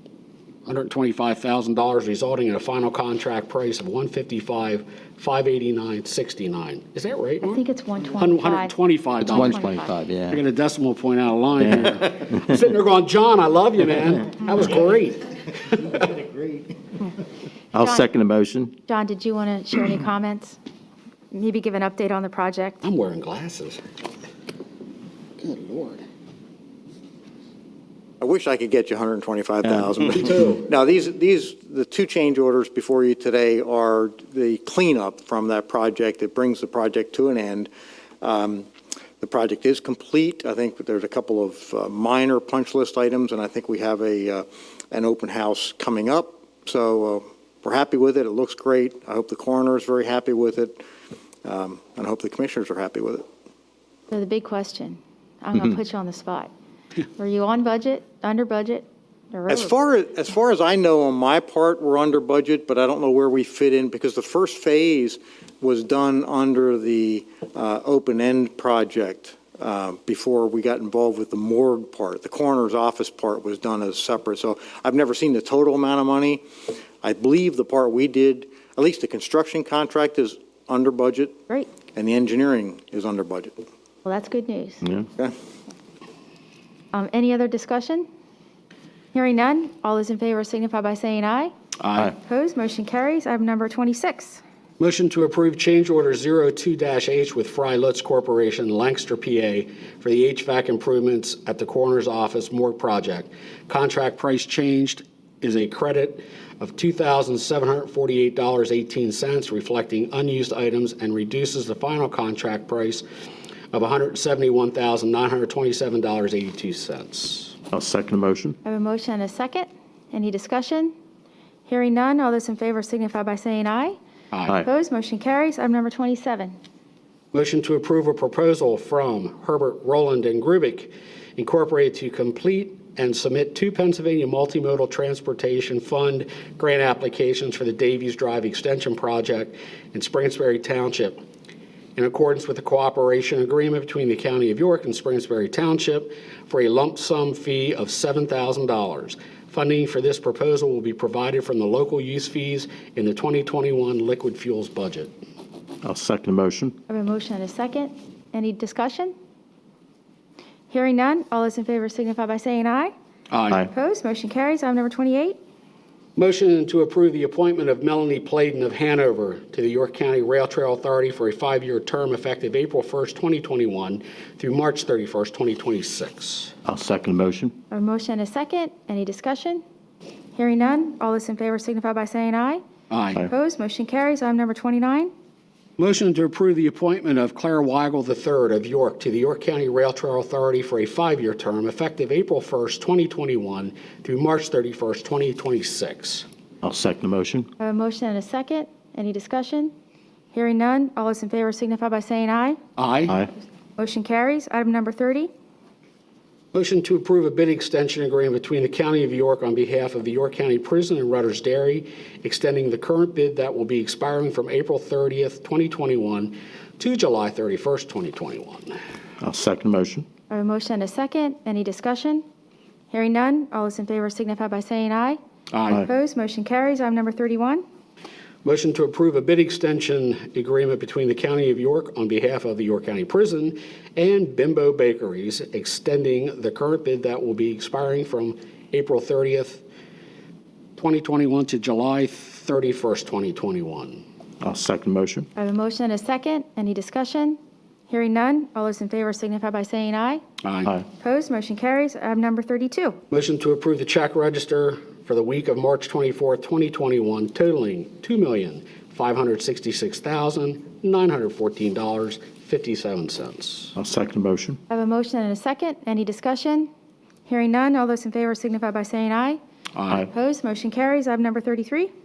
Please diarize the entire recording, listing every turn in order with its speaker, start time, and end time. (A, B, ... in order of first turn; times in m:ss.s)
0:00.6-0:09.6 A
0:07.4-0:10.0 B
0:09.2-0:10.4 C
0:10.3-0:15.4 A
0:15.9-0:16.7 D
0:17.7-0:18.7 C
0:18.9-0:20.6 B
0:21.3-0:22.8 B
0:22.8-0:23.8 A
0:25.4-0:26.0 A
0:28.2-0:38.7 D
0:39.2-0:50.8 D
0:51.4-0:53.2 D
0:54.1-0:56.5 B
0:57.2-0:59.7 B
0:59.5-1:16.4 D
1:17.0-1:21.4 D
1:21.9-1:23.6 D
1:24.0-1:24.8 B
1:24.8-1:25.1 C
1:26.9-1:28.1 B
1:29.1-1:31.5 B
1:31.8-1:32.1 A
1:32.2-1:34.4 B
1:34.8-1:53.0 A
1:53.7-1:57.6 A
1:57.7-1:58.6 C
1:58.6-2:00.9 B
2:01.7-2:04.0 B
2:04.3-2:04.6 A
2:04.6-2:06.6 B
2:07.3-2:21.2 A
2:22.0-2:35.1 A
2:35.8-2:36.8 C
2:36.9-2:39.1 B
2:40.7-2:42.9 B
2:43.3-2:43.6 A
2:43.7-2:45.4 B
2:46.2-2:56.5 A
2:56.6-2:57.6 C
2:57.7-2:59.6 B
3:00.3-3:02.6 B
3:02.9-3:03.2 A
3:03.3-3:05.1 B
3:05.8-3:16.2 A
3:16.6-3:17.5 C
3:17.6-3:19.7 B
3:20.3-3:22.6 B
3:22.8-3:23.2 A
3:23.8-3:25.3 B
3:26.5-3:38.8 A
3:39.2-3:40.0 C
3:40.3-3:42.2 B
3:42.9-3:45.2 B
3:45.5-3:45.8 A
3:45.8-3:47.6 B
3:48.4-3:59.6 A
4:00.8-4:04.0 A
4:04.4-4:05.3 C
4:05.4-4:10.2 B
4:10.4-4:10.7 A
4:11.0-4:13.0 B
4:13.1-4:23.8 A
4:23.8-4:24.6 C
4:24.7-4:26.7 B
4:27.3-4:29.4 B
4:29.8-4:30.1 A
4:30.1-4:31.9 B